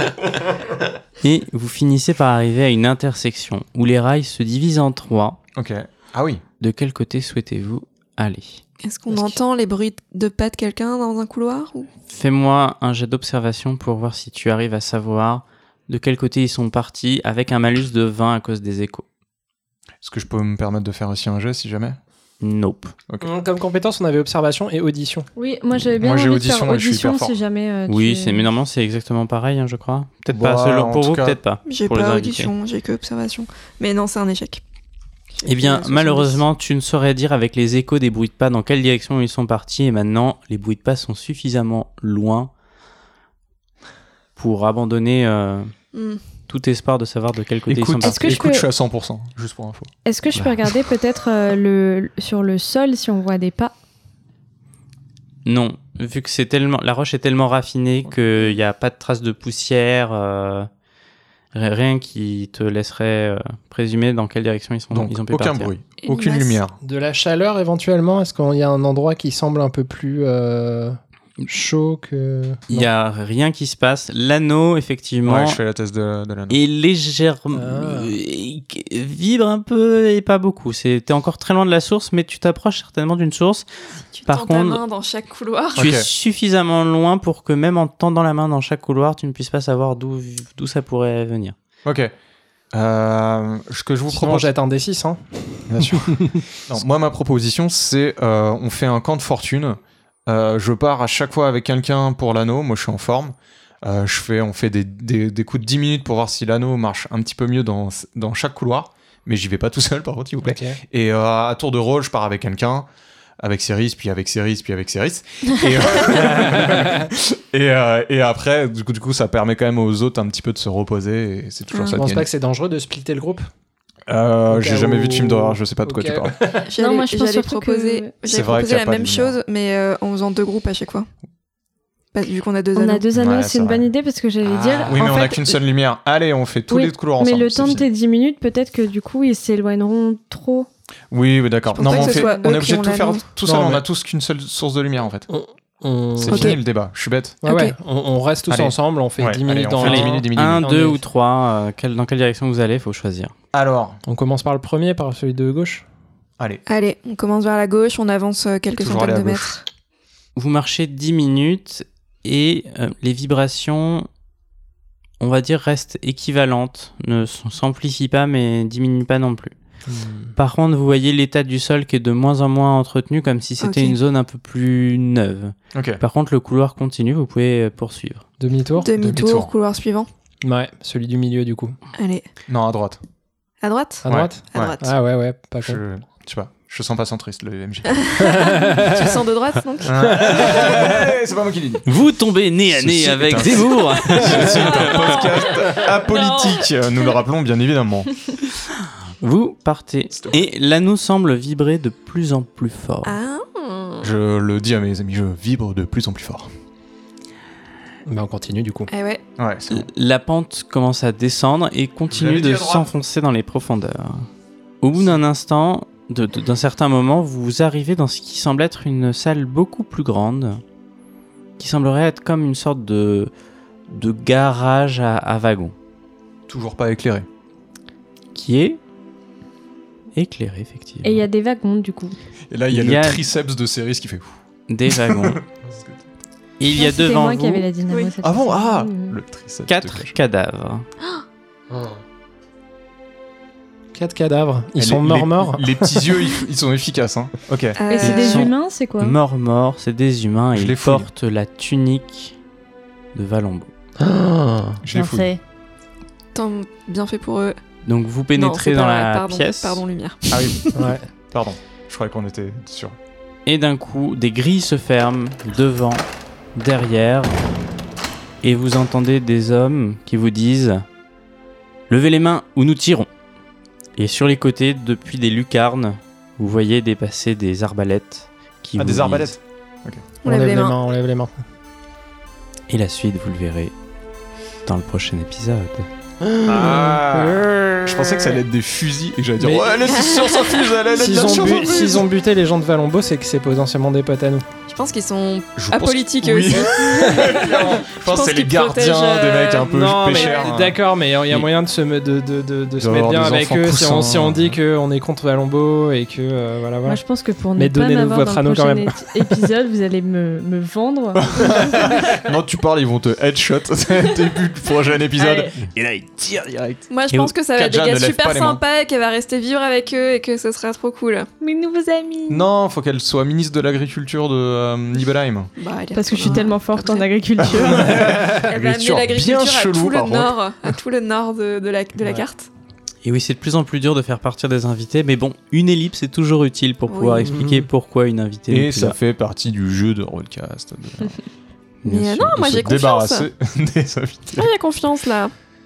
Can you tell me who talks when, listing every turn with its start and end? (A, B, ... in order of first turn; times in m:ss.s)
0:01.2-0:05.4 A
0:05.5-0:06.4 B
0:06.6-0:09.4 A
0:08.8-0:11.9 C
0:12.1-0:19.0 A
0:20.0-0:22.0 B
0:22.4-0:22.9 A
0:23.2-0:25.3 D
0:25.4-0:28.5 E
0:26.0-0:27.4 B
0:27.9-0:32.5 A
0:30.3-0:31.4 B
0:31.7-0:34.6 C
0:35.4-0:36.4 C
0:35.4-0:42.5 A
0:44.4-0:45.7 A
0:45.9-0:46.2 C
0:46.5-0:48.4 A
0:47.7-0:49.9 B
0:48.0-0:48.7 E
0:50.0-0:53.7 E
0:55.4-1:00.7 A
1:01.5-1:05.7 A
1:04.9-1:06.8 B
1:06.1-1:06.6 C
1:06.8-1:12.9 D
1:12.7-1:15.6 A
1:15.2-1:16.6 B
1:16.5-1:23.6 A
1:17.5-1:18.1 D
1:24.1-1:25.9 C
1:24.3-1:24.8 A
1:25.8-1:31.6 A
1:25.8-1:26.1 B
1:31.8-1:32.1 B
1:32.7-1:34.5 B
1:34.1-1:36.6 D
1:35.7-1:52.9 B
1:50.4-1:50.8 D
1:53.4-2:02.3 B
1:56.2-1:57.1 D
2:01.7-2:02.0 C
2:02.0-2:03.5 D
2:04.1-2:06.4 B
2:04.5-2:06.7 D
2:06.7-2:11.1 C
2:06.8-2:08.1 E
2:08.2-2:09.4 B
2:12.1-2:13.0 C
2:12.8-2:15.6 E
2:13.1-2:13.9 B
2:14.4-2:17.9 B
2:14.8-2:15.1 D
2:16.7-2:20.7 E
2:21.1-2:25.3 B
2:21.7-2:23.2 C
2:21.8-2:22.7 E
2:23.4-2:23.8 D
2:25.3-2:26.6 D
2:26.2-2:27.4 B
2:26.3-2:26.6 C
2:27.4-2:27.8 C
2:27.4-2:31.0 D
2:28.5-2:30.7 B
2:29.8-2:33.3 A
2:33.5-2:34.0 B
2:34.1-2:35.8 D
2:36.7-2:39.6 C
2:38.8-2:39.5 B
2:40.4-2:44.1 A
2:45.2-2:49.6 A
2:49.9-2:50.4 D
2:50.4-2:58.2 A
2:53.6-2:54.0 C
2:55.7-2:56.0 B
2:58.4-2:58.9 D
2:58.8-3:00.1 C
2:59.0-2:59.5 B
3:00.4-3:01.8 D
3:02.0-3:02.3 C
3:02.5-3:03.0 B
3:03.6-3:04.9 C
3:04.0-3:05.8 D
3:04.1-3:04.8 B
3:05.6-3:08.2 B
3:08.0-3:10.7 C
3:08.2-3:08.9 D
3:09.8-3:11.9 B
3:10.3-3:10.9 D
3:11.8-3:15.3 A
3:12.7-3:18.2 B
3:14.8-3:16.7 C
3:19.2-3:23.2 A
3:20.1-3:20.4 B
3:23.0-3:24.1 C
3:24.0-3:26.5 B
3:28.1-3:28.9 D
3:28.9-3:29.2 C
3:29.4-3:29.9 B
3:29.7-3:34.3 A
3:32.1-3:32.9 B
3:34.8-3:40.6 A
3:41.6-3:43.3 A
3:43.9-3:45.7 A
3:46.5-3:47.3 B
3:48.4-3:48.8 A
3:50.2-3:51.2 A
3:51.0-3:52.2 E
3:52.5-3:56.0 B
3:52.7-3:53.2 A
3:54.7-3:55.4 A
3:56.6-3:57.6 A
3:56.7-3:59.2 E
3:58.2-4:00.2 B
3:59.7-4:00.9 A
4:03.9-4:06.2 D
4:04.8-4:08.5 B
4:07.8-4:08.5 C
4:07.9-4:09.2 E
4:09.0-4:12.4 A
4:10.6-4:11.1 B
4:13.1-4:13.7 A
4:14.0-4:14.8 D
4:14.8-4:15.3 B
4:14.9-4:15.4 E
4:16.3-4:17.6 C
4:17.9-4:19.8 A
4:18.4-4:20.9 C
4:20.3-4:20.6 B
4:20.8-4:21.1 D
4:21.3-4:23.0 B
4:23.5-4:27.4 A
4:28.4-4:30.8 A
4:31.9-4:33.1 A
4:34.0-4:39.3 A
4:38.8-4:40.1 B
4:40.2-4:40.8 C
4:40.3-4:41.4 D
4:42.7-4:43.7 A
4:44.7-4:45.9 A
4:46.2-4:48.0 D
4:46.4-4:52.0 B
4:49.4-4:49.7 D
4:49.8-4:51.5 C
4:50.9-4:54.4 D
4:54.7-5:00.5 C
4:55.6-5:00.8 B
4:59.6-5:07.0 D
5:02.8-5:04.6 B
5:06.8-5:11.9 E
5:07.6-5:09.2 D
5:11.2-5:16.8 B
5:15.2-5:15.5 E
5:16.9-5:21.3 C
5:17.5-5:18.6 B
5:21.4-5:22.5 E
5:22.3-5:25.5 B
5:25.6-5:27.1 C
5:25.9-5:28.0 E
5:27.4-5:30.4 B
5:27.7-5:32.5 C
5:28.0-5:28.5 D
5:33.0-5:39.0 A
5:36.9-5:37.3 C
5:37.2-5:37.6 D
5:38.5-5:41.2 B
5:41.8-5:42.7 A
5:41.8-5:43.3 C
5:42.5-5:44.5 B
5:44.4-5:45.3 C